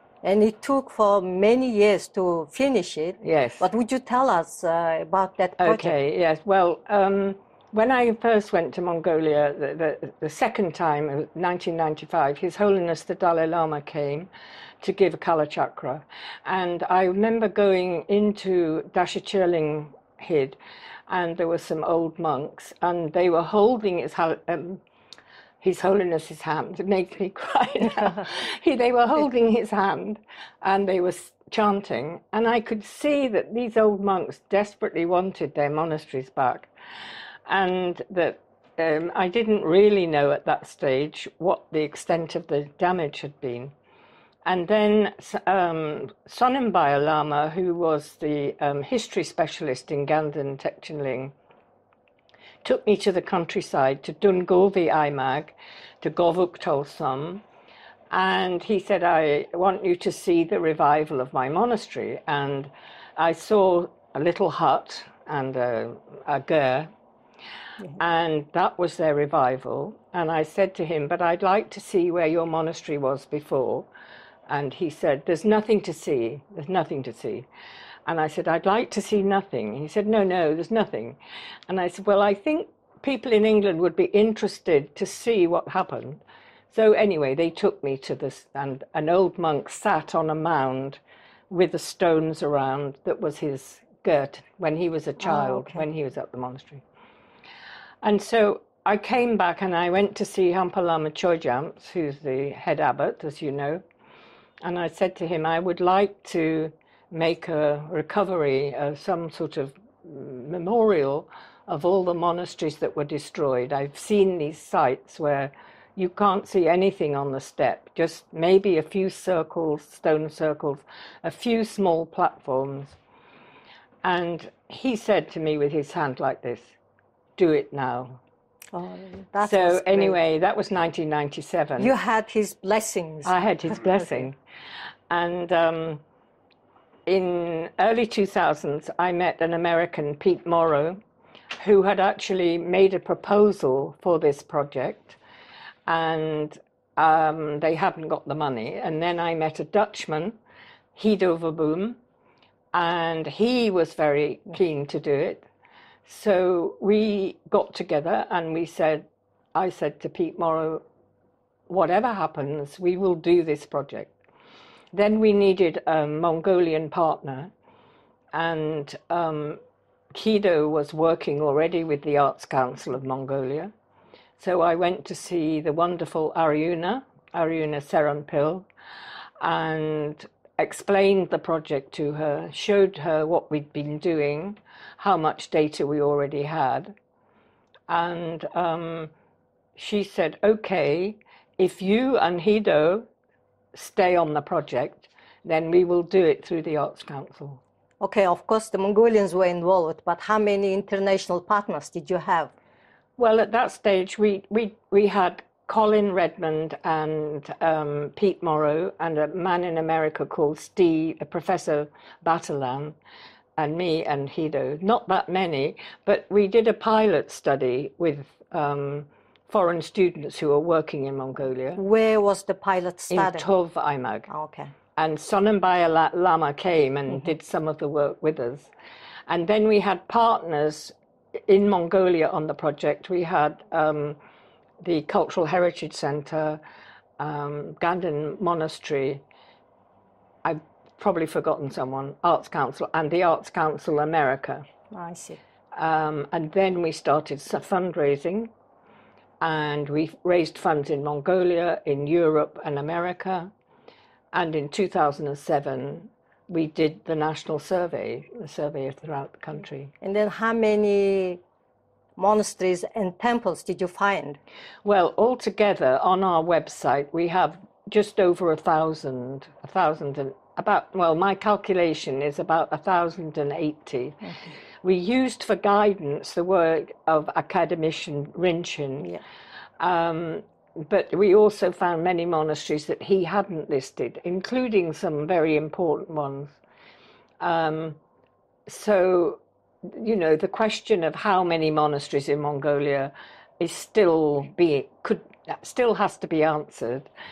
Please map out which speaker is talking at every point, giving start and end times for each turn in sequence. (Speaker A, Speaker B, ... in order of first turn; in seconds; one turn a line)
Speaker A: 0.2-6.0
Speaker B: 3.2-3.6
Speaker B: 5.6-14.3
Speaker B: 14.8-20.6
Speaker B: 21.1-24.8
Speaker B: 25.6-36.7
Speaker B: 37.5-43.7
Speaker B: 44.4-51.3
Speaker B: 52.6-57.4
Speaker B: 58.1-66.9
Speaker B: 68.0-73.9
Speaker B: 74.5-77.5
Speaker B: 78.1-81.2
Speaker B: 81.7-96.8
Speaker A: 95.2-95.8
Speaker B: 98.0-103.8
Speaker B: 104.6-123.0
Speaker B: 124.0-126.7
Speaker B: 127.4-128.2
Speaker A: 128.7-130.2
Speaker B: 129.4-131.9
Speaker A: 131.8-134.2
Speaker B: 133.2-134.4
Speaker B: 135.1-136.0
Speaker B: 137.1-141.0
Speaker B: 141.6-145.2
Speaker B: 145.9-150.4
Speaker B: 150.9-152.0
Speaker B: 152.7-155.4
Speaker B: 156.1-160.8
Speaker B: 161.7-164.1
Speaker B: 164.9-167.5
Speaker B: 168.3-169.6
Speaker B: 170.1-173.7
Speaker B: 174.4-178.7
Speaker B: 179.4-186.9
Speaker B: 187.9-189.1
Speaker B: 189.8-193.1
Speaker B: 193.7-197.6
Speaker A: 198.0-202.5
Speaker B: 203.2-213.0
Speaker B: 213.6-221.8
Speaker A: 221.7-223.4
Speaker B: 223.1-224.3
Speaker A: 224.3-224.7
Speaker B: 224.9-228.7
Speaker B: 229.3-234.2
Speaker B: 234.8-236.6
Speaker B: 237.2-239.2
Speaker B: 240.4-244.6
Speaker A: 244.9-245.4
Speaker B: 245.7-248.5
Speaker B: 249.4-253.5
Speaker B: 254.3-259.9
Speaker A: 260.0-261.4
Speaker A: 262.2-264.4
Speaker B: 264.8-274.3
Speaker B: 274.8-279.1
Speaker B: 279.8-286.6
Speaker B: 287.4-288.0
Speaker B: 288.6-297.1